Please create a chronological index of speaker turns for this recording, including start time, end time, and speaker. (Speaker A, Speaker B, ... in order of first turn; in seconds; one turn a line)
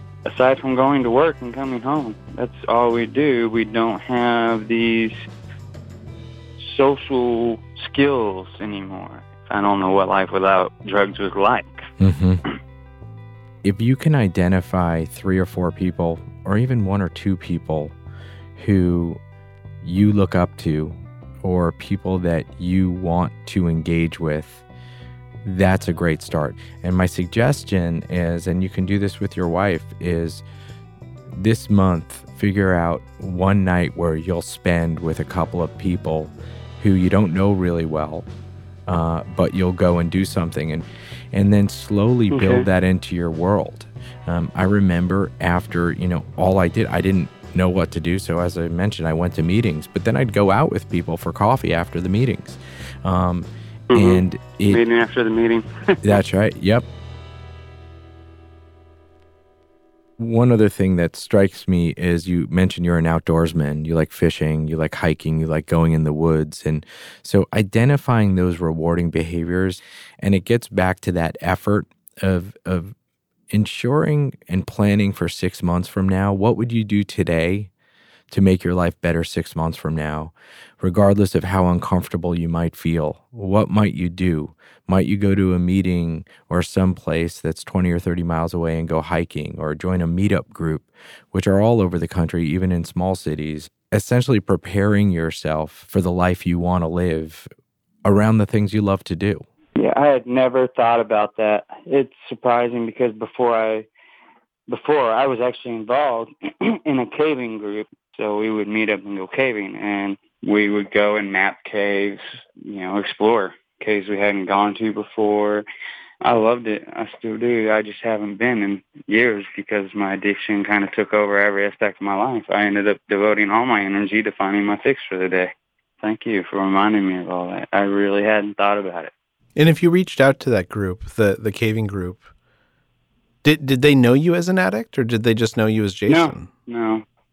Speaker A: 0.2-5.2
Speaker A: 6.6-11.9
Speaker B: 12.0-12.4
Speaker B: 13.6-18.0
Speaker B: 18.6-19.2
Speaker B: 19.8-24.6
Speaker B: 25.4-30.4
Speaker B: 31.3-38.3
Speaker B: 38.9-54.8
Speaker A: 42.3-42.7
Speaker A: 53.9-56.0
Speaker B: 56.0-56.9
Speaker B: 60.2-72.9
Speaker B: 73.5-77.7
Speaker B: 78.3-97.5
Speaker B: 98.0-99.5
Speaker A: 99.8-103.9
Speaker A: 104.7-115.7
Speaker A: 116.2-129.1
Speaker C: 129.6-132.3
Speaker C: 133.4-136.5
Speaker A: 136.1-137.0